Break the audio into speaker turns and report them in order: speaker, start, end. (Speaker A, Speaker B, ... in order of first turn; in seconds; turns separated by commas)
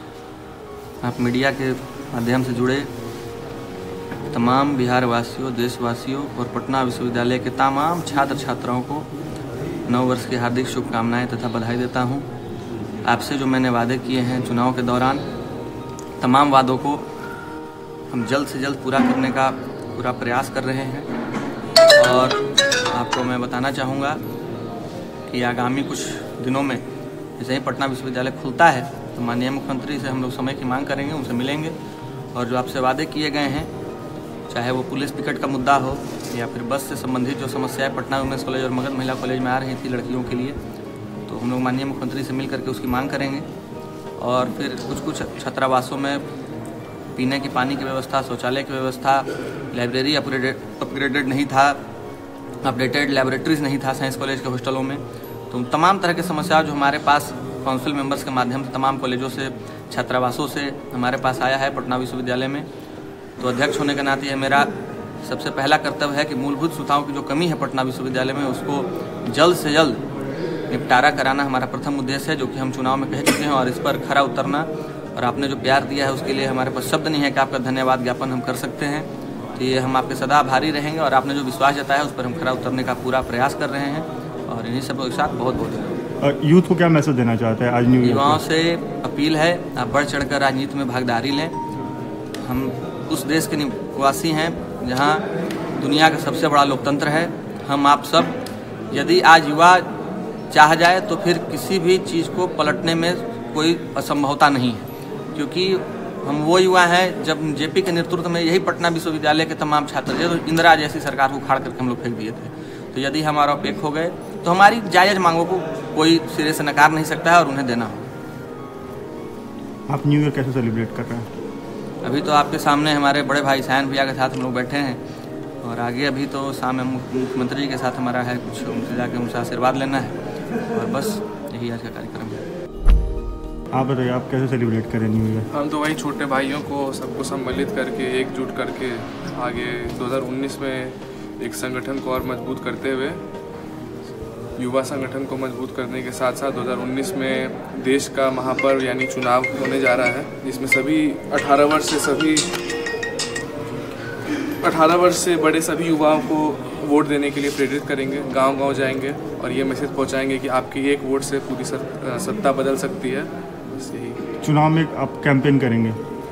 Speaker A: 1.0-2.9, Speaker A: 4.3-9.1, Speaker A: 9.9-12.3, Speaker A: 13.1-15.2, Speaker A: 16.2-17.1, Speaker A: 18.1-21.1, Speaker A: 21.9-24.2, Speaker A: 25.3-26.8, Speaker A: 27.4-31.8, Speaker A: 32.3-33.7, Speaker A: 34.5-40.6, Speaker A: 41.3-43.5, Speaker A: 44.2-46.2, Speaker A: 47.1-51.8, Speaker A: 52.6-62.7, Speaker A: 63.4-64.7, Speaker A: 65.2-70.0, Speaker A: 70.7-86.0, Speaker B: 86.2-88.4, Speaker A: 88.0-91.5, Speaker A: 92.4-99.9, Speaker A: 100.5-118.0, Speaker B: 119.9-121.3, Speaker A: 122.0-125.0, Speaker A: 125.6-132.4, Speaker B: 133.7-135.5, Speaker C: 135.5-143.2, Speaker C: 144.6-152.5, Speaker C: 154.6-164.3, Speaker B: 164.4-166.0